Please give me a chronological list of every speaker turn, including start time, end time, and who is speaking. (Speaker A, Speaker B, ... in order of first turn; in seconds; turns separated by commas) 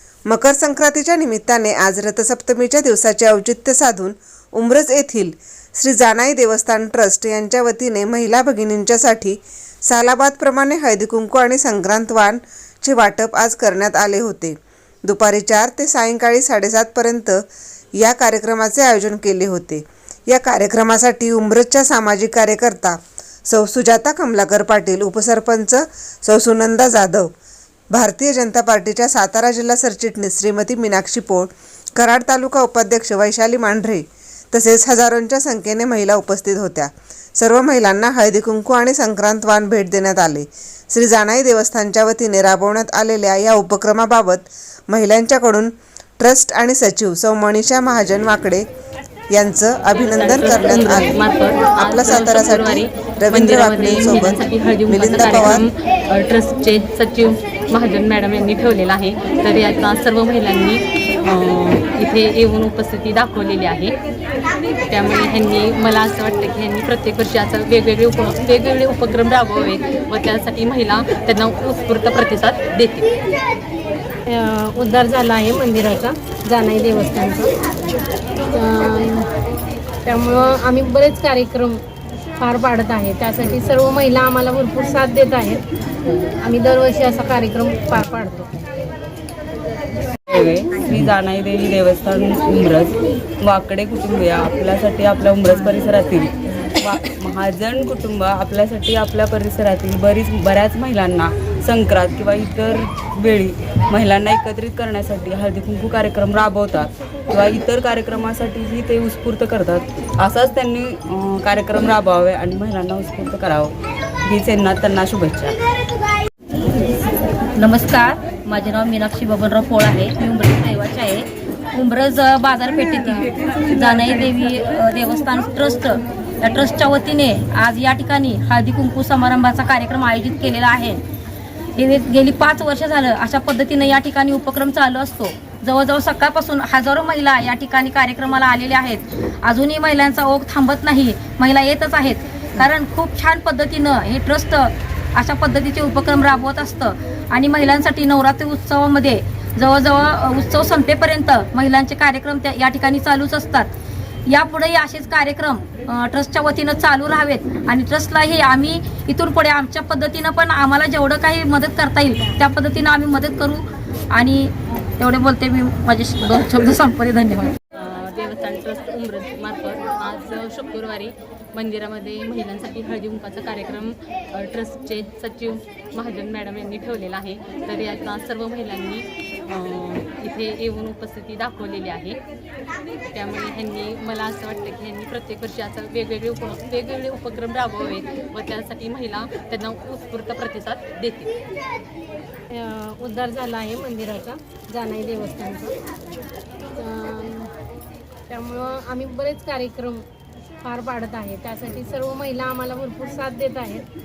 Speaker A: 0.3-17.5, Speaker A: 18.0-27.3, Speaker A: 27.9-48.6, Speaker A: 49.3-51.2, Speaker B: 50.1-64.0, Speaker A: 51.8-55.7, Speaker B: 64.9-73.1, Speaker C: 74.3-77.5, Speaker C: 78.5-79.3, Speaker C: 80.0-81.8, Speaker C: 82.4-85.6, Speaker C: 86.3-88.6, Speaker D: 90.3-113.7, Speaker D: 114.2-115.6, Speaker E: 117.6-131.0, Speaker E: 131.8-153.7, Speaker E: 154.3-167.6, Speaker B: 167.8-182.2, Speaker B: 183.1-191.3, Speaker C: 192.5-195.8, Speaker C: 196.7-197.5, Speaker C: 198.3-200.0, Speaker C: 200.6-203.8